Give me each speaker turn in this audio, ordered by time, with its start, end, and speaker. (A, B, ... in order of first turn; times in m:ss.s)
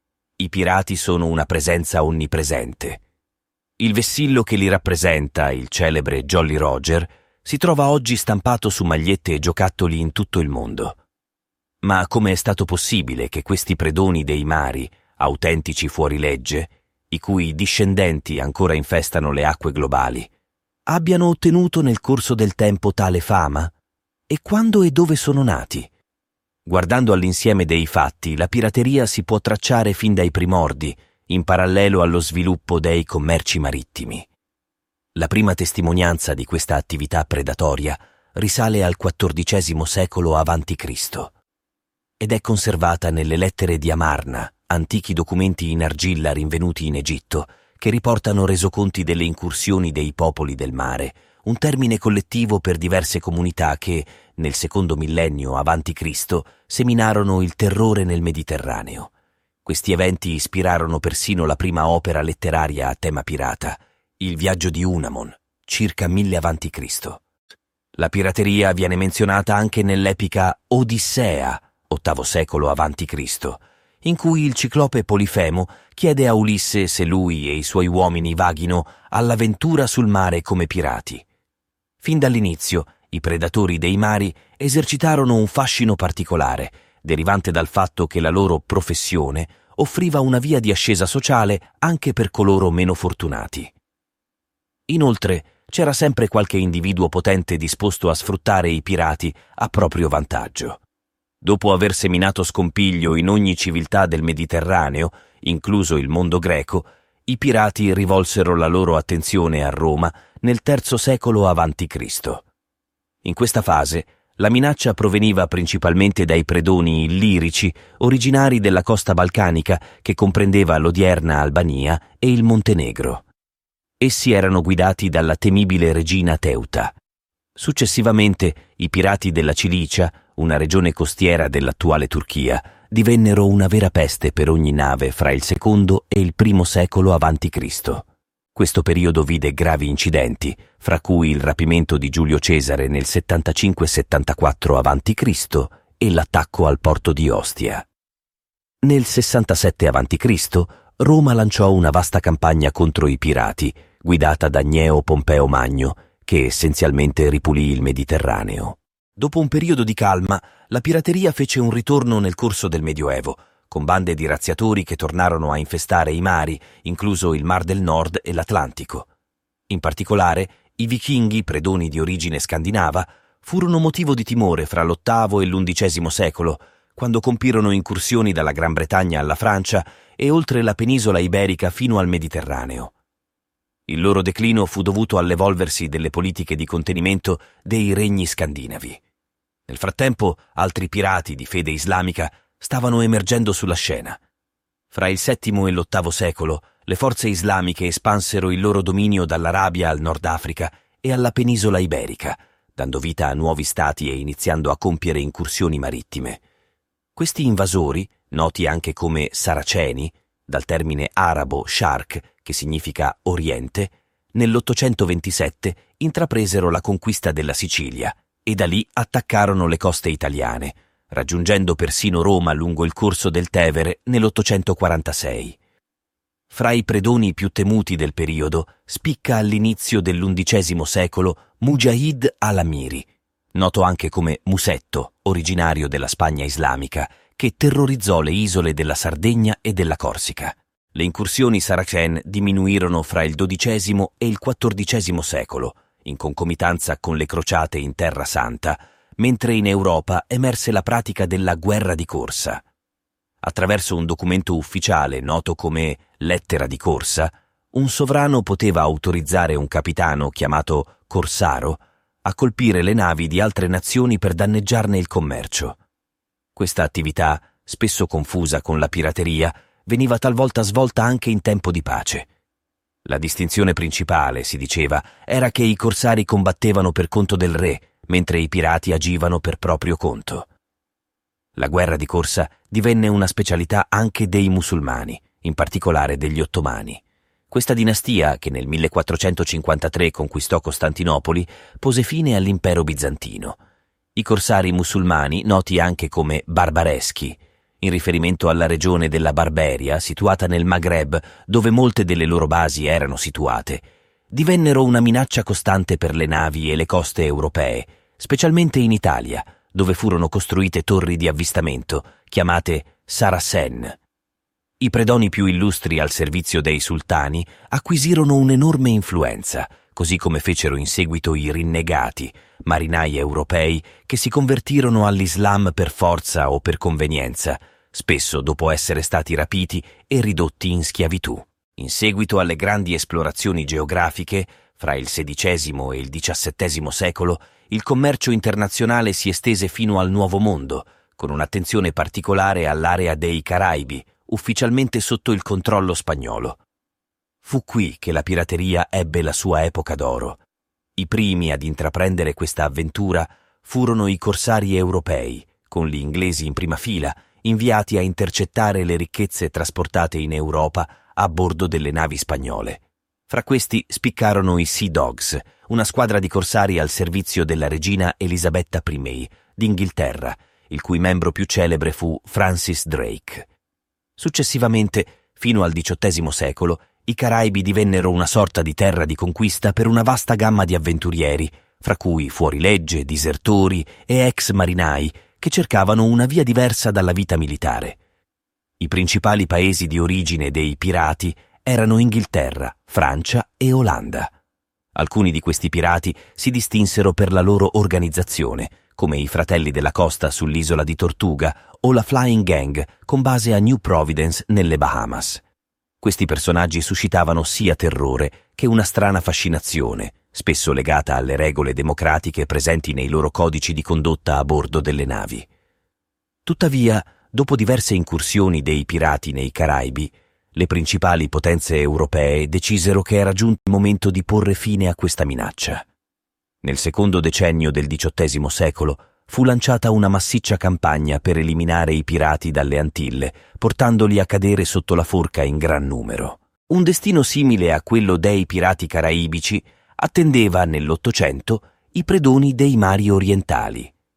0:00.4-0:03.0 A
0:03.8-0:11.0 A
0:11.8-0:20.3 A
0:20.8-0:23.7 A
0:24.3-0:25.9 A
0:26.6-0:34.3 A
0:35.2-0:41.3 A
0:42.2-0:59.1 A
0:59.6-1:07.2 A
1:08.0-1:21.2 A
1:22.0-1:33.7 A
1:34.9-1:40.8 A
1:41.4-1:52.4 A
1:53.2-2:03.2 A
2:04.0-2:06.9 A
2:07.6-2:27.8 A
2:28.8-2:49.1 A
2:49.7-3:02.9 A
3:03.9-3:09.0 A
3:09.7-3:14.2 A
3:14.9-3:26.4 A
3:27.2-3:45.6 A
3:46.5-4:12.6 A
4:13.4-4:25.8 A
4:26.6-4:32.3 A
4:33.0-4:40.5 A
4:41.6-4:53.6 A
4:54.2-5:14.0 A
5:14.8-5:46.6 A
5:47.4-5:50.4 A
5:51.0-6:13.5 A
6:14.2-6:28.0 A
6:28.8-6:34.3 A
6:34.9-6:45.4 A
6:46.0-6:55.5 A
6:56.4-7:05.8 A
7:06.6-7:23.9 A